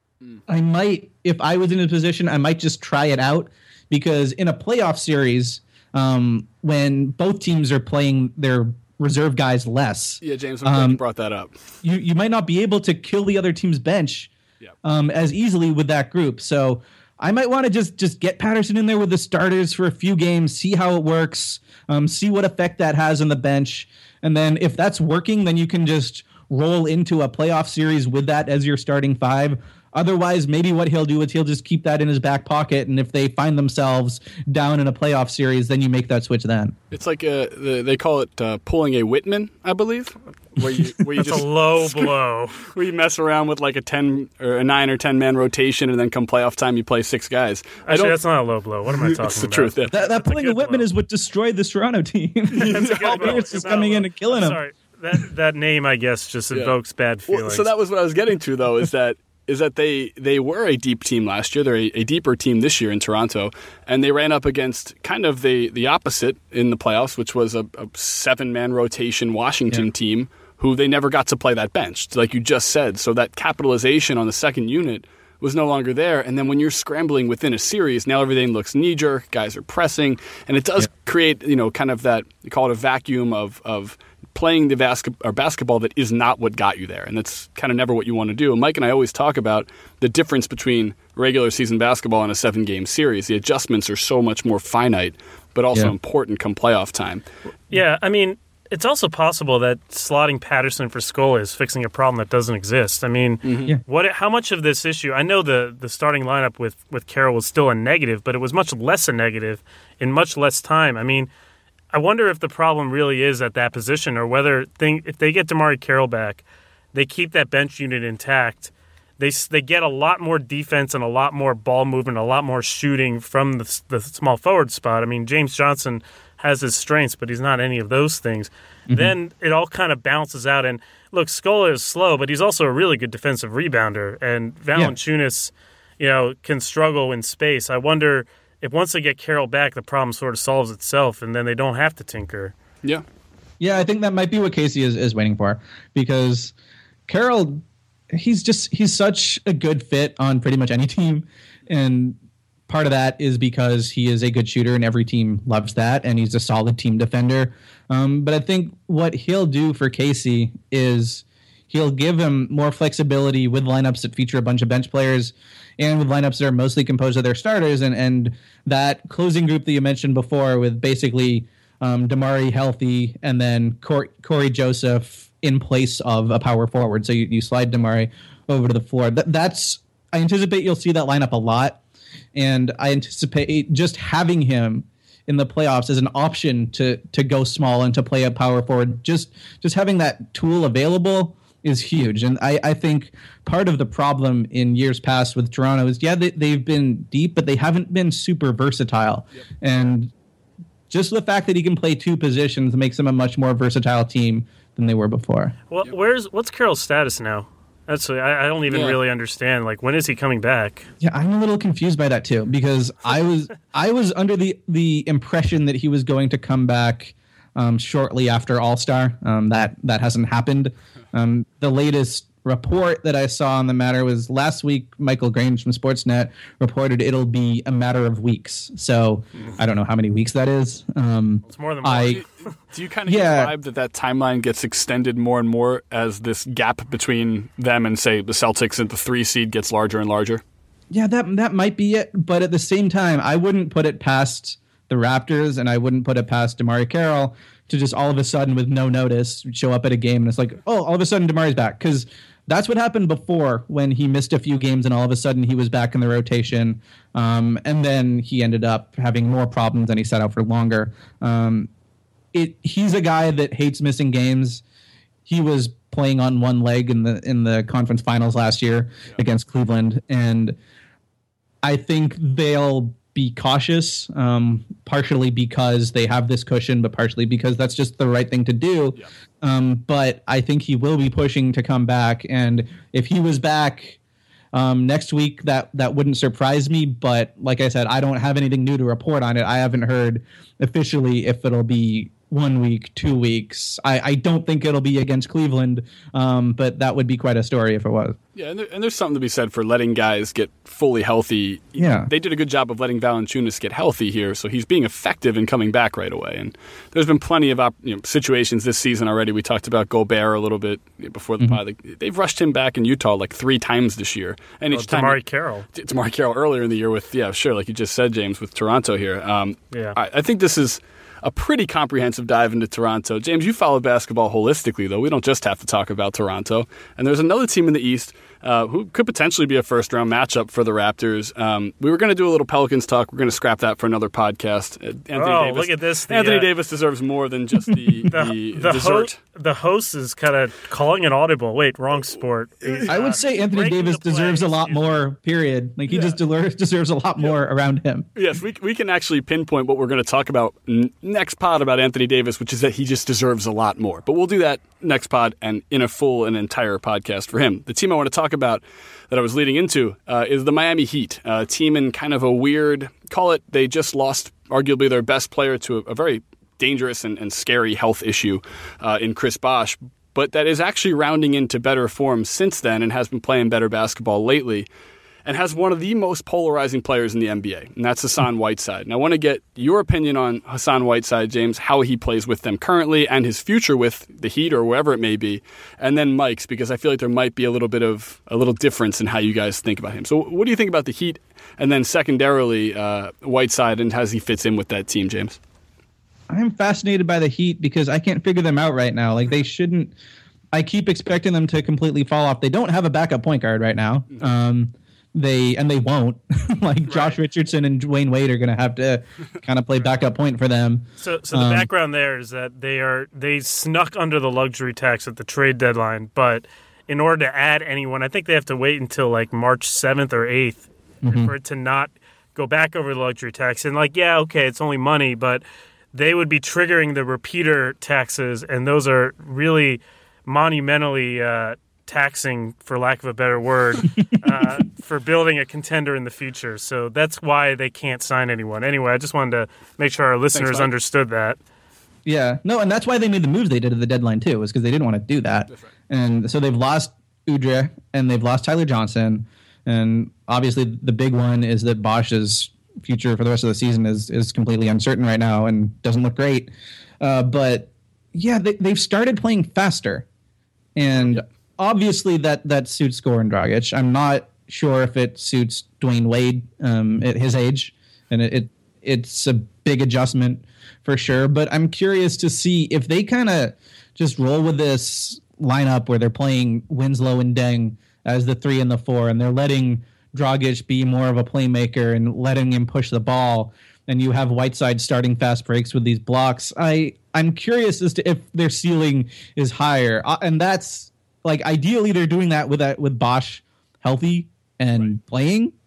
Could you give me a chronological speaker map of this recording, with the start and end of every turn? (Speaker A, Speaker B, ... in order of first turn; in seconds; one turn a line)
Speaker A: 0.5-11.0
Speaker B: 10.2-11.6
Speaker A: 11.8-14.3
Speaker A: 14.8-36.8
Speaker B: 36.9-42.1
Speaker C: 41.1-42.7
Speaker B: 42.6-48.2
Speaker C: 47.9-50.9
Speaker B: 48.9-49.9
Speaker A: 49.9-54.6
Speaker B: 52.5-53.4
Speaker C: 52.6-57.7
Speaker B: 57.3-97.2
Speaker C: 97.7-111.3
Speaker B: 103.4-103.7
Speaker C: 111.9-142.5
Speaker A: 143.6-146.5
Speaker A: 147.1-152.2
Speaker A: 152.7-181.8
Speaker A: 182.3-200.1
Speaker A: 200.9-205.5
Speaker C: 205.7-210.8
Speaker B: 208.7-209.0
Speaker A: 211.0-232.2
Speaker C: 231.5-232.5
Speaker B: 232.1-240.4
Speaker A: 233.1-233.5
Speaker A: 240.9-261.7
Speaker A: 262.3-264.6
Speaker A: 265.2-270.6
Speaker A: 271.6-284.0
Speaker A: 284.5-298.2
Speaker B: 298.4-315.2
Speaker A: 301.8-302.1
Speaker C: 314.7-315.7
Speaker B: 315.7-339.1
Speaker C: 319.7-320.0
Speaker C: 335.1-336.5
Speaker A: 337.7-338.0
Speaker C: 338.1-345.0
Speaker B: 342.6-342.9
Speaker A: 342.9-348.1
Speaker B: 348.1-374.7
Speaker B: 375.2-395.4
Speaker A: 396.3-399.9
Speaker A: 400.5-411.7
Speaker C: 406.9-407.2
Speaker C: 411.0-441.4
Speaker A: 421.0-421.3
Speaker B: 440.3-440.7
Speaker A: 442.1-456.5
Speaker A: 457.0-460.1
Speaker A: 460.8-495.5